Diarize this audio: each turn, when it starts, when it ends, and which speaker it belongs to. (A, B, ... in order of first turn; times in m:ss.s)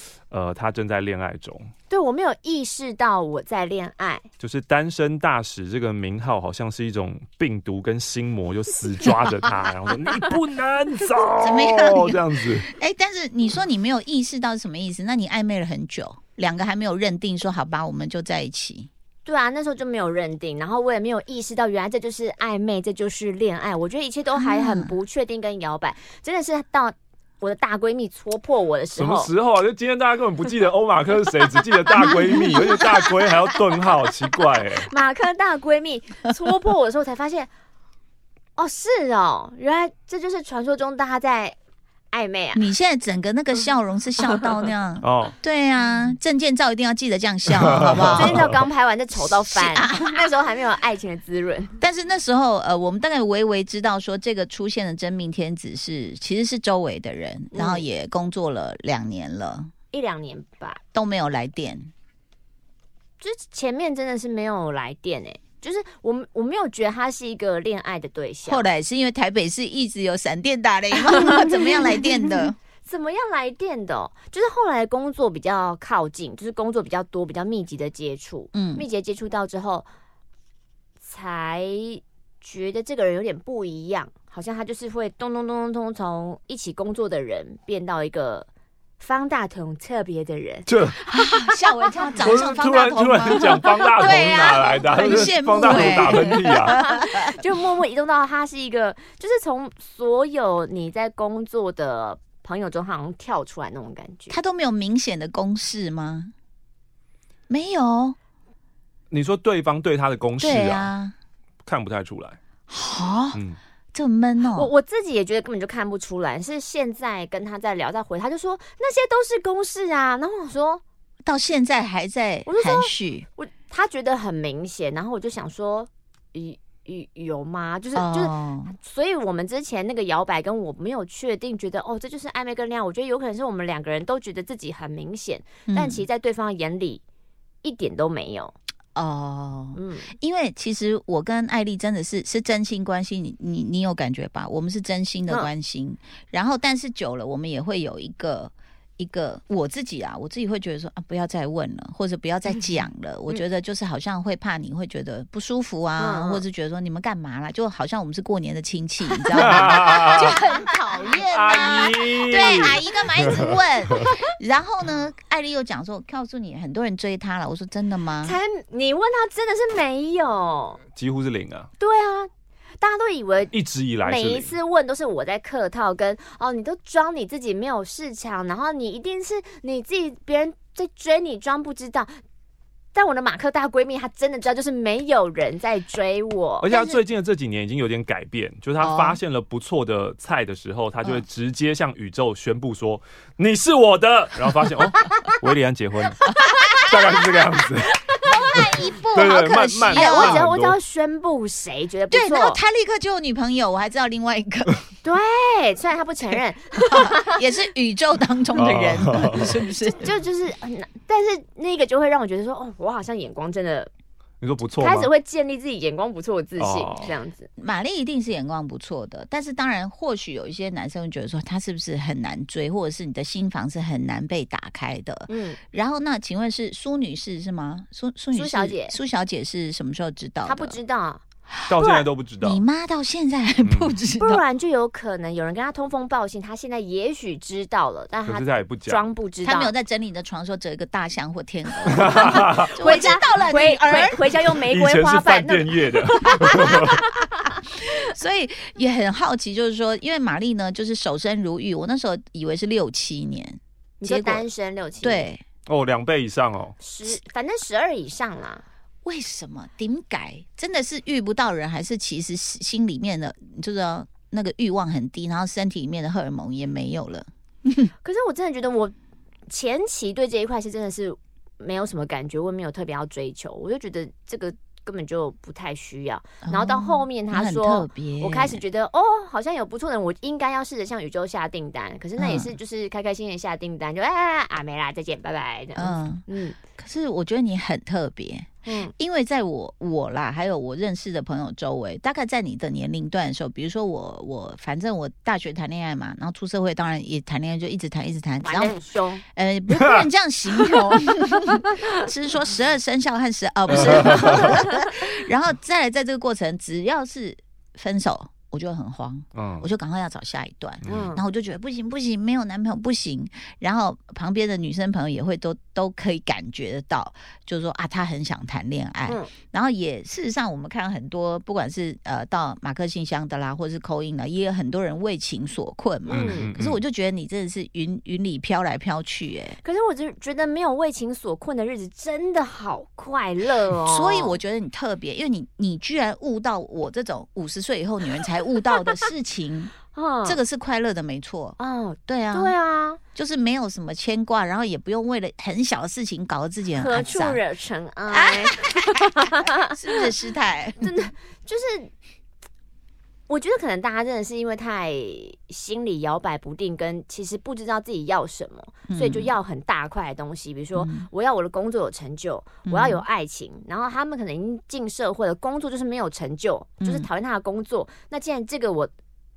0:00.3-0:01.7 A
0:01.9-0:04.2 B
0:04.4-0:12.7 A
0:11.4-0:18.9 C
0:19.2-0:29.3 B
0:24.4-0:24.9 C
0:29.0-0:34.9 A
0:32.1-0:33.1 B
0:34.6-0:37.5 B
0:38.6-0:41.6 B
0:42.1-0:42.6 B
0:42.5-0:48.6 C
0:45.0-0:45.3 A
0:47.5-0:48.6 A
0:48.0-0:51.8 B
0:49.2-0:50.2 C
0:51.8-0:59.7 C
0:57.5-0:57.8 B
0:59.9-1:00.8 B
1:00.9-1:01.9 C
1:03.2-1:08.7 B
1:08.4-1:12.6 C
1:11.1-1:12.0 B
1:12.8-1:19.9 B
1:18.5-1:18.8 C
1:21.0-1:28.5 B
1:29.0-1:30.8 B
1:30.7-1:31.0 A
1:31.0-1:37.4 C
1:32.1-1:36.8 A
1:33.3-1:44.4 B
1:44.3-1:46.3 C
1:47.5-1:48.2 C
1:49.1-1:50.9 A
1:50.4-1:51.1 C
1:51.6-1:52.4 A
1:52.7-1:53.4 C
1:53.9-1:54.7 C
1:54.5-2:00.8 B
2:01.2-2:03.2 C
2:02.4-2:17.0 B
2:07.9-2:08.7 C
2:15.7-2:16.0 C
2:17.6-2:18.5 B
2:18.9-2:48.4 C
2:19.7-2:20.1 B
2:36.0-2:36.4 B
2:39.2-2:41.7 B
2:39.4-2:40.4 A
2:41.2-2:44.0 A
2:48.2-2:50.8 B
2:50.9-2:51.7 A
2:51.8-2:52.3 B
2:52.8-3:02.2 B
2:53.5-2:54.5 A
3:02.9-3:07.0 B
3:06.6-3:18.6 A
3:08.8-3:09.2 C
3:14.9-3:15.4 B
3:16.2-3:17.1 B
3:18.0-3:18.5 B
3:18.2-3:20.5 C
3:19.1-3:20.8 A
3:19.9-3:22.6 B
3:22.1-3:24.8 C
3:25.0-3:27.4 B
3:26.9-3:30.1 C
3:28.5-3:29.6 A
3:29.9-3:33.9 B
3:34.4-3:35.1 A
3:34.8-3:37.5 B
3:36.6-3:37.1 A
3:37.6-3:50.8 C
3:45.3-3:45.6 B
3:48.3-3:49.0 B
3:50.4-3:51.2 B
3:51.7-3:52.6 A
3:51.8-3:52.0 B
3:52.4-3:54.4 C
3:53.6-3:54.0 A
3:54.2-3:59.7 B
3:58.2-3:59.0 A
3:59.4-4:04.3 C
4:01.9-4:02.7 A
4:02.0-4:07.5 B
4:04.7-4:07.0 A
4:07.8-4:14.5 C
4:14.0-4:15.3 B
4:15.0-4:15.4 C
4:15.7-4:16.8 A
4:16.8-4:18.6 B
4:19.0-4:27.9 C
4:28.0-4:28.9 B
4:29.5-4:46.6 B
4:36.4-4:38.6 C
4:42.2-4:42.5 C
4:45.8-4:46.2 C
4:46.8-5:29.6 C
4:48.6-4:48.9 B
4:58.4-4:59.2 B
5:03.7-5:04.5 A
5:09.3-5:09.7 A
5:10.8-5:11.1 A
5:10.8-5:11.2 B
5:26.1-5:26.5 B
5:26.1-5:26.8 A
5:29.6-5:34.4 B
5:33.8-5:39.7 C
5:39.9-5:40.4 B
5:40.2-5:42.5 C
5:41.6-5:43.0 B
5:43.1-5:47.4 C
5:46.8-5:50.1 B
5:48.1-5:50.9 C
5:50.8-5:51.9 B
5:53.3-6:08.9 B
5:58.9-5:59.3 C
6:00.7-6:01.1 C
6:02.6-6:03.0 C
6:06.8-6:07.1 C